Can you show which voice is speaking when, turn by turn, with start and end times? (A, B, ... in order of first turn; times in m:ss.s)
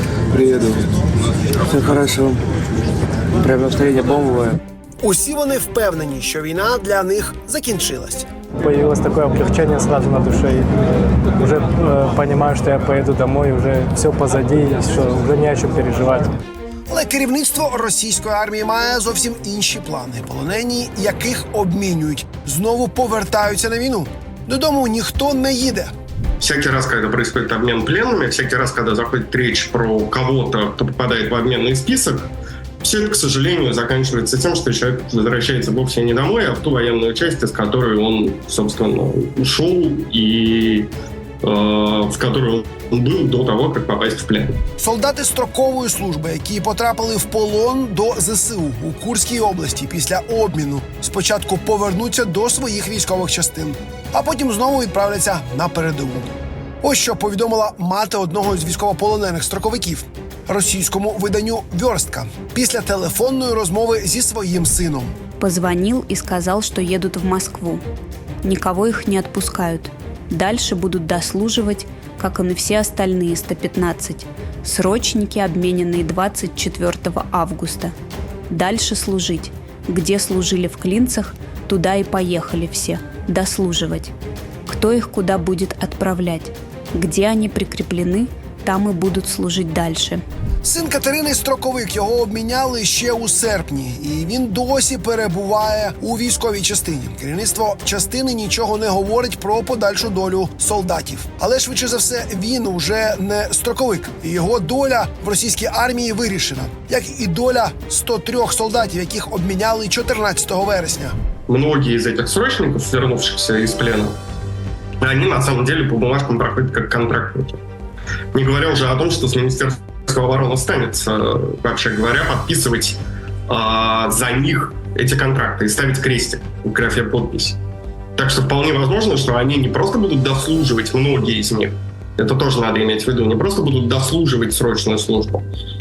0:00.3-0:00.9 A
0:01.6-0:02.4 A
0:03.4-0:04.6 A
0:05.0-0:08.3 B
0:08.6-0:10.7 C
0:11.3-0:16.4 C
0:16.9-0:25.9 B
0:26.4-0:32.3 D
0:32.8-0:40.9 D
0:41.4-0:44.6 D
0:44.8-0:56.3 B
0:56.8-1:05.1 B
1:05.4-1:07.8 E
1:08.4-1:17.9 E
1:18.5-1:24.1 E
1:24.6-1:30.2 E
1:30.6-1:51.1 B
1:51.5-1:54.2 D
1:55.0-1:57.6 D
1:58.3-2:07.6 D
2:08.2-2:15.4 D